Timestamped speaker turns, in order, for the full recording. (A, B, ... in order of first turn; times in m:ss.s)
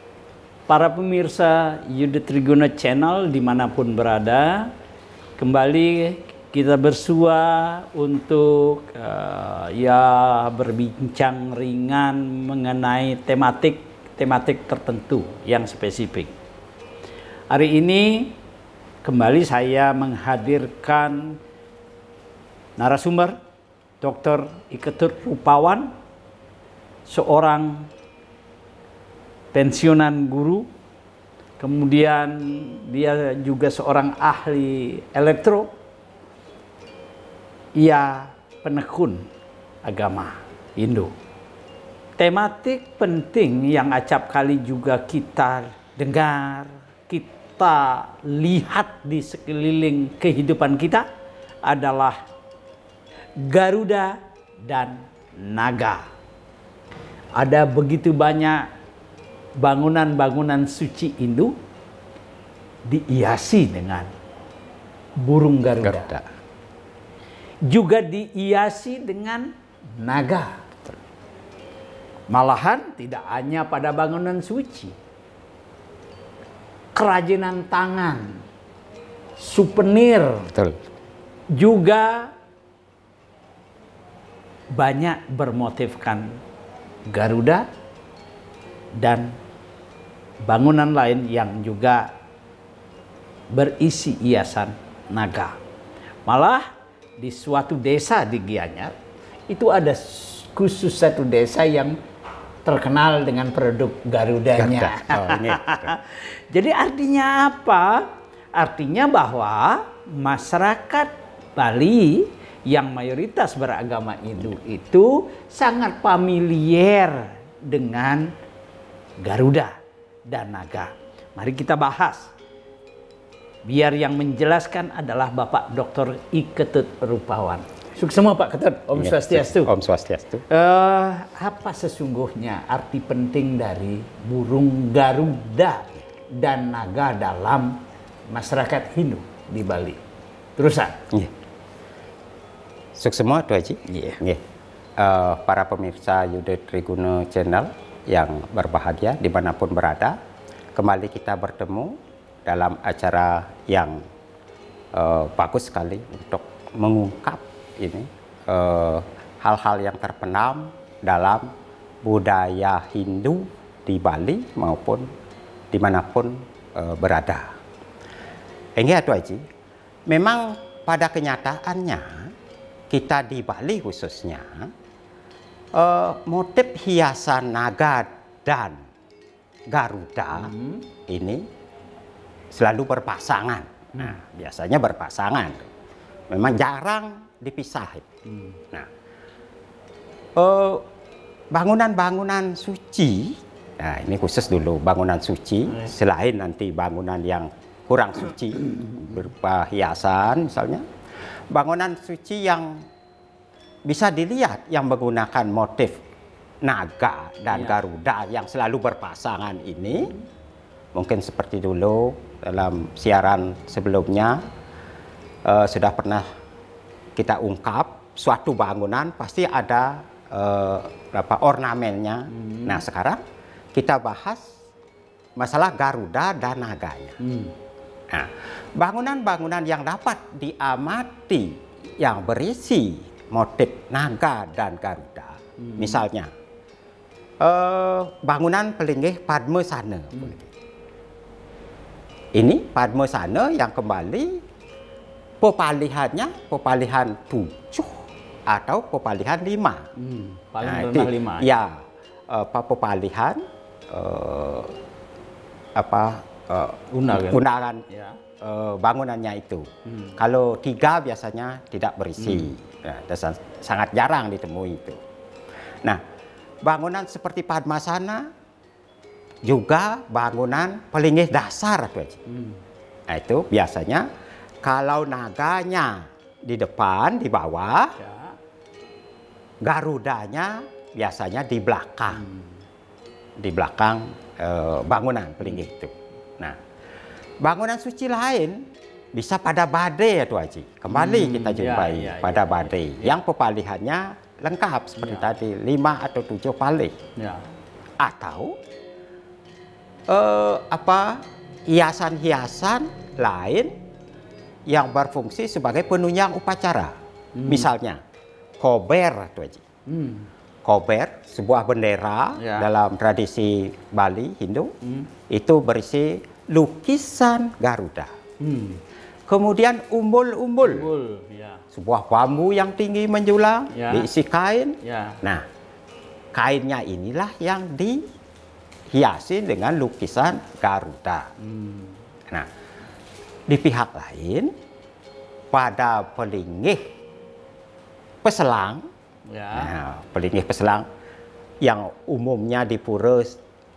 0:00.7-0:04.7 A
0:05.4-0:16.3 A
0:17.5-0:18.3 A
0:19.0-0:21.4 A
0:22.8-0:23.4 A
0:24.0-0:25.9 A
0:27.1-0:27.9 A
0:29.5-0:30.7 A
0:31.6-0:35.7 A
0:37.8-0:39.2 A
0:39.8-0:41.1 A
0:42.2-0:51.1 A
0:51.6-0:52.2 A
0:53.4-0:56.0 A
0:57.4-0:58.7 A
0:59.6-1:01.5 A
1:02.9-1:04.1 A
1:05.2-1:06.1 A
1:05.8-1:06.2 B
1:07.7-1:10.6 A
1:12.3-1:14.9 A
1:16.9-1:18.4 A
1:19.4-1:20.5 A
1:20.5-1:20.8 B
1:21.6-1:22.3 A
1:24.7-1:26.3 A
1:27.1-1:27.6 A
1:29.0-1:29.3 A
1:30.5-1:32.1 A
1:33.5-1:35.5 A
1:36.2-1:36.6 A
1:37.2-1:38.9 A
1:39.5-1:41.9 A
1:42.6-1:58.3 A
1:44.6-1:46.0 B
1:59.2-1:59.7 A
2:00.3-2:02.3 A
2:03.6-2:09.7 A
2:08.9-2:10.4 B
2:10.5-2:20.0 A
2:20.6-2:21.0 A
2:22.9-2:24.4 B
2:23.9-2:24.2 A
2:25.0-2:30.2 B
2:30.8-2:31.9 B
2:32.4-2:34.0 B
2:34.9-2:41.4 B
2:42.0-2:45.0 B
2:45.7-2:47.4 B
2:48.8-2:49.4 B
2:50.1-2:52.3 B
2:52.9-2:54.7 B
2:55.7-2:58.8 B
2:59.7-3:00.5 B
3:00.3-3:00.8 A
3:01.1-3:01.4 B
3:02.5-3:05.7 B
3:06.3-3:08.0 B
3:10.4-3:10.8 B
3:11.5-3:20.8 B
3:21.5-3:22.8 B
3:23.8-3:26.0 B
3:26.6-3:30.1 B
3:27.5-3:27.8 A
3:30.9-3:34.4 B
3:35.4-3:36.2 B
3:37.2-3:43.2 B
3:42.3-3:42.8 A
3:43.7-3:44.5 B
3:45.4-3:47.2 B
3:47.2-3:47.5 A
3:48.1-3:56.3 B
3:55.6-3:56.0 A
3:57.4-4:00.5 B
4:02.3-4:04.4 B
4:05.4-4:09.9 B
4:10.0-4:11.6 A
4:10.6-4:14.8 B
4:15.8-4:17.8 B
4:16.9-4:18.2 A
4:18.4-4:25.0 B
4:22.2-4:22.5 A
4:26.6-4:28.3 B
4:29.4-4:32.2 B
4:32.3-4:32.6 A
4:33.1-4:34.0 B
4:34.6-4:37.9 B
4:38.0-4:38.3 A
4:39.6-4:42.2 B
4:42.1-4:42.5 A
4:43.4-4:46.6 B
4:47.4-4:48.6 B
4:49.1-4:56.9 B
4:50.9-4:53.2 A
4:55.0-4:55.3 A
4:57.2-4:57.4 A
4:58.0-4:58.5 B
5:00.1-5:03.7 B
5:04.7-5:06.9 B
5:07.4-5:07.7 A
5:07.4-5:08.0 B
5:08.6-5:09.6 B
5:09.9-5:10.3 A
5:10.6-5:14.7 B
5:12.4-5:12.7 A
5:14.8-5:15.1 A
5:15.3-5:18.1 B
5:18.4-5:18.8 A
5:19.3-5:20.9 B
5:20.6-5:21.6 A
5:21.7-5:25.4 B
5:23.7-5:24.1 A
5:24.8-5:25.2 A
5:26.3-5:28.0 B
5:28.9-5:31.3 B
5:31.4-5:31.9 A
5:33.5-5:34.5 B
5:35.5-5:36.8 B
5:38.2-5:38.8 B
5:39.3-5:39.8 A
5:39.5-5:40.8 B
5:41.6-5:43.4 B